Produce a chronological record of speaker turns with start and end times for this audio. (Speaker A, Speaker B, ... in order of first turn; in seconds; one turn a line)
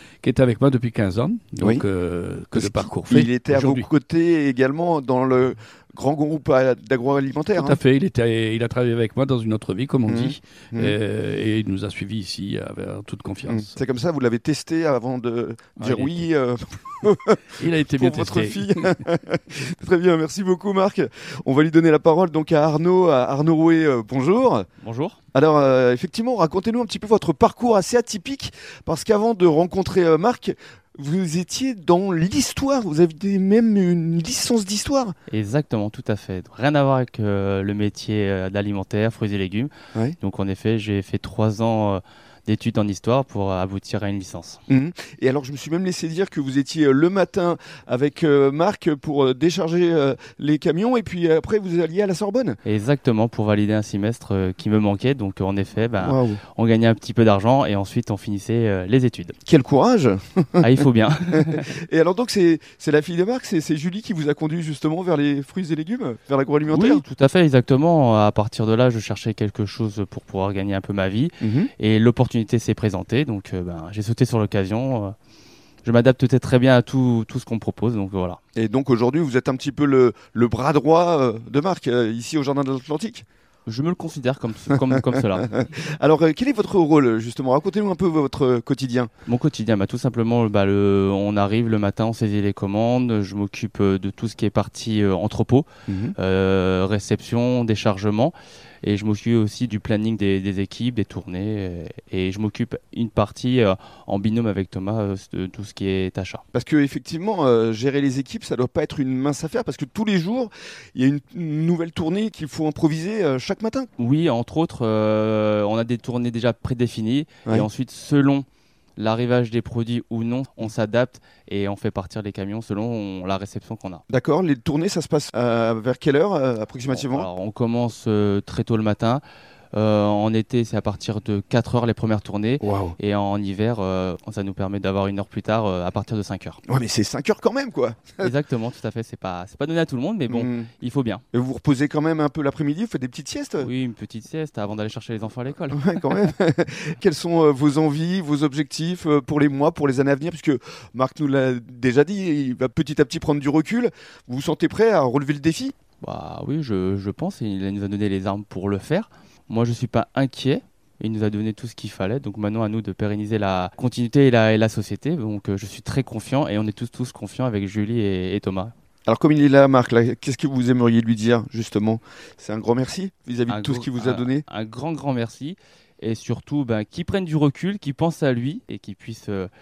Speaker A: 0.2-3.9
Speaker B: 2.5-7.8
Speaker A: 7.5-13.8
Speaker B: 10.1-10.9
Speaker B: 13.5-24.7
Speaker A: 15.8-16.2
Speaker A: 17.6-18.9
Speaker C: 24.8-25.2
Speaker B: 25.3-35.1
Speaker C: 35.3-44.6
Speaker B: 44.7-52.6
Speaker C: 52.6-59.3
Speaker B: 56.0-56.4
Speaker B: 59.5-67.0
Speaker C: 60.6-61.8
Speaker C: 66.7-75.1
Speaker B: 71.4-71.7
Speaker C: 75.8-78.4
Speaker B: 78.5-83.2
Speaker C: 83.7-85.5
Speaker B: 84.9-89.1
Speaker C: 89.2-106.4
Speaker B: 95.9-96.2
Speaker B: 106.5-113.9
Speaker C: 114.0-118.5
Speaker C: 119.0-124.0
Speaker B: 124.1-127.3
Speaker C: 126.9-129.2
Speaker C: 129.7-136.6
Speaker B: 132.6-132.9
Speaker B: 136.7-138.3
Speaker C: 138.2-141.2
Speaker B: 140.3-140.7
Speaker B: 141.3-143.7
Speaker C: 143.6-146.3
Speaker B: 145.7-155.7
Speaker C: 156.0-168.7
Speaker B: 169.1-174.4
Speaker C: 173.5-179.5